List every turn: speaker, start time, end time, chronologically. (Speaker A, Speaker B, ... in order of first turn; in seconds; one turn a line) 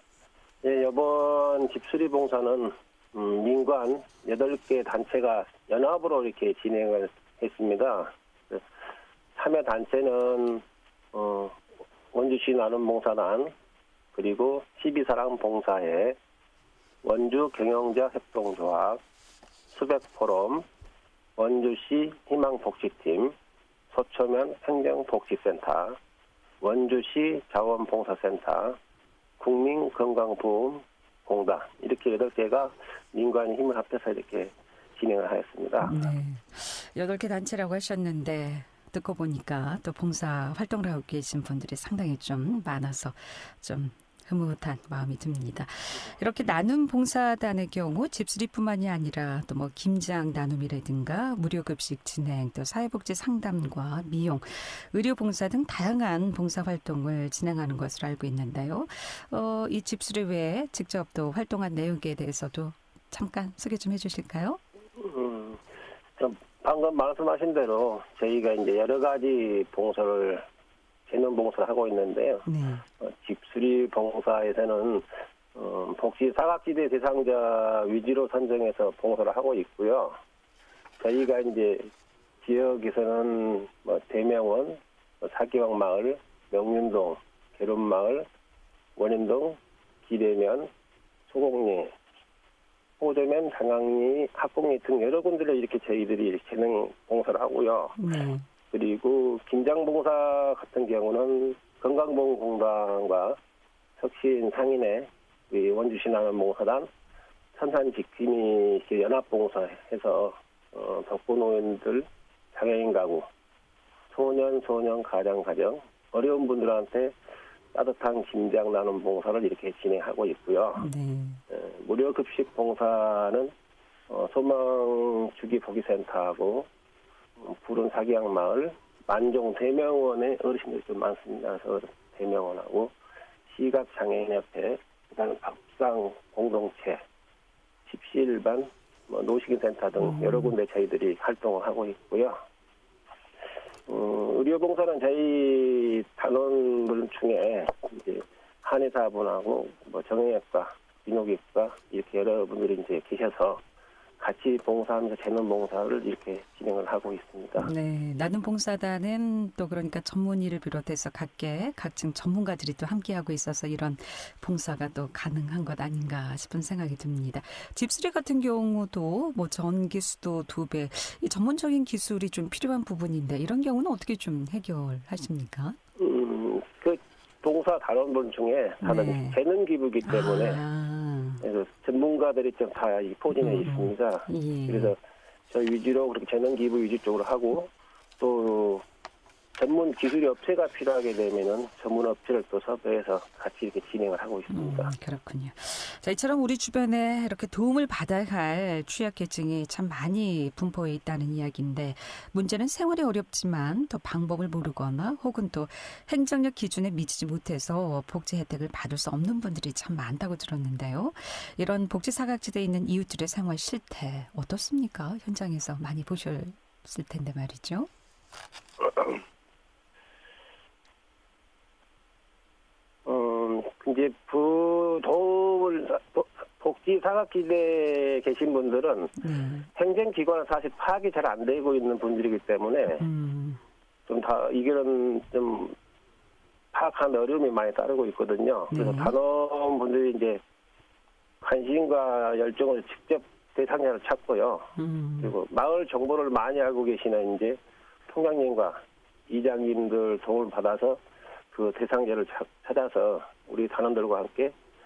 Speaker A: 0.6-8.6
Speaker A: 9.4-10.6
Speaker A: 11.1-11.6
Speaker A: 12.1-13.5
Speaker A: 14.2-16.2
Speaker A: 17.0-19.0
Speaker A: 19.7-20.6
Speaker A: 21.4-23.3
Speaker A: 23.9-26.0
Speaker A: 26.6-28.8
Speaker A: 29.4-36.0
Speaker B: 35.8-64.6
Speaker A: 65.0-65.6
Speaker A: 66.2-70.5
Speaker A: 71.1-72.5
Speaker B: 72.5-72.8
Speaker A: 73.0-80.2
Speaker A: 81.0-81.9
Speaker A: 82.4-88.3
Speaker A: 89.0-90.7
Speaker A: 91.3-91.9
Speaker A: 93.0-98.0
Speaker B: 98.0-98.5
Speaker A: 98.7-103.4
Speaker A: 104.0-106.9
Speaker A: 107.6-113.3
Speaker A: 114.1-117.1
Speaker A: 117.7-120.9
Speaker B: 120.8-121.4
Speaker A: 121.5-123.5
Speaker A: 124.1-126.7
Speaker A: 127.4-132.9
Speaker A: 133.5-137.0
Speaker A: 137.9-142.4
Speaker B: 140.0-140.5
Speaker A: 143.9-153.6
Speaker A: 154.2-157.7
Speaker B: 157.6-175.8
Speaker A: 176.0-180.6
Speaker B: 178.8-179.4
Speaker B: 180.1-181.4
Speaker A: 181.4-185.0
Speaker B: 183.4-184.9
Speaker A: 185.5-188.8
Speaker A: 189.6-194.9
Speaker B: 194.5-217.9
Speaker A: 223.1-229.2
Speaker B: 229.2-229.7
Speaker A: 229.8-233.0
Speaker B: 233.0-233.6
Speaker A: 234.1-235.8
Speaker A: 236.7-240.4
Speaker B: 238.7-239.1
Speaker A: 241.4-247.6
Speaker B: 244.8-245.3
Speaker A: 248.1-251.0
Speaker A: 251.5-254.6